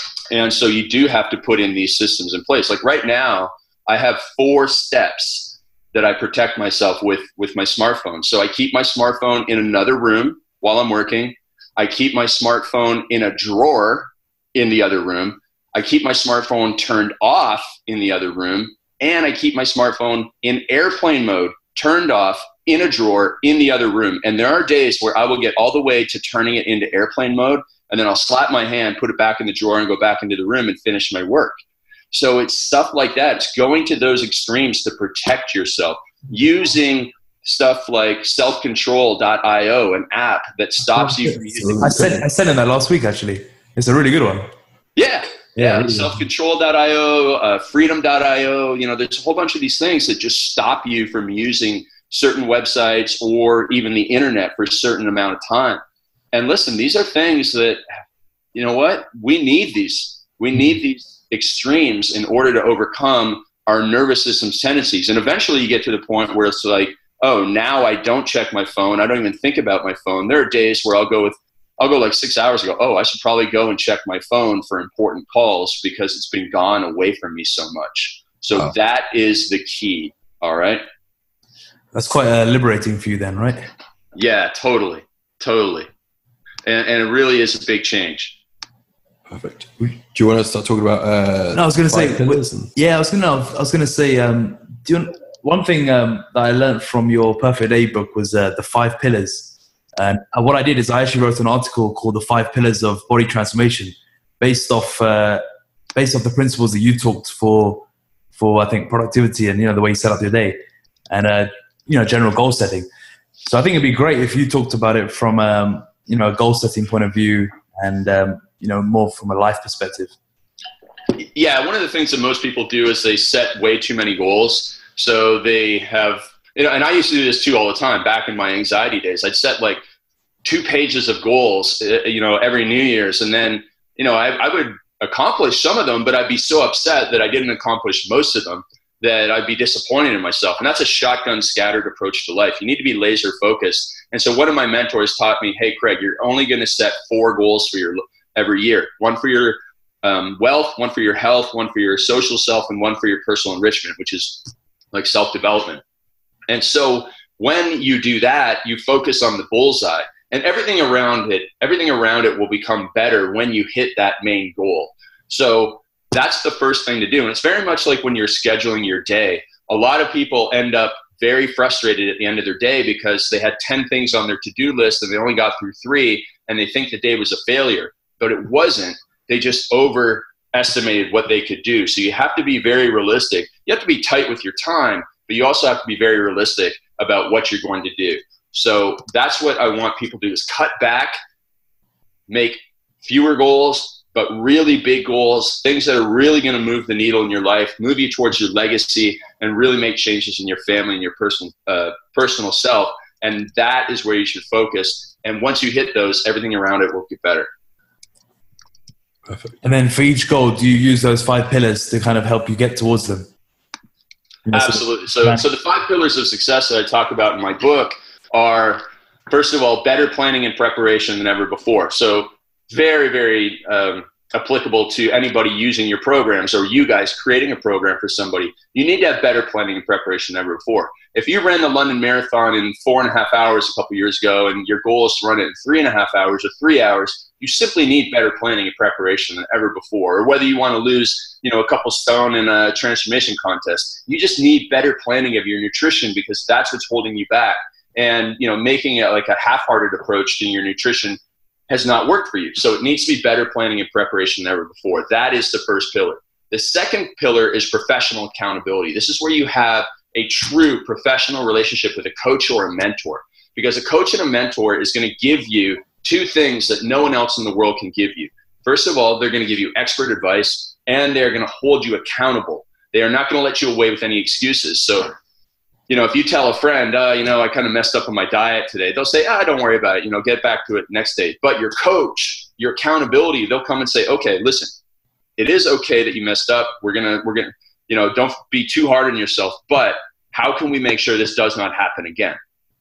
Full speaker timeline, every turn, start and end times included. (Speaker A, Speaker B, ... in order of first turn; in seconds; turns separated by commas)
Speaker A: 0.3-31.6, Speaker A: 32.1-42.2, Speaker B: 41.5-42.2, Speaker C: 41.8-44.5, Speaker A: 45.0-55.8, Speaker C: 45.6-46.2, Speaker A: 56.3-57.8, Speaker A: 58.5-80.8, Speaker C: 81.9-83.6, Speaker A: 84.1-85.9, Speaker A: 86.7-88.4, Speaker B: 89.3-92.7, Speaker C: 91.5-105.4, Speaker C: 105.9-107.8, Speaker C: 108.3-110.6, Speaker C: 111.1-112.9, Speaker C: 113.4-120.1, Speaker A: 121.2-129.8, Speaker A: 130.4-155.8, Speaker A: 156.5-191.2, Speaker A: 192.3-207.5, Speaker B: 209.3-209.5, Speaker C: 209.6-213.3, Speaker C: 214.4-215.4, Speaker A: 214.5-251.2, Speaker A: 251.7-275.1, Speaker A: 275.9-284.7, Speaker A: 285.4-292.4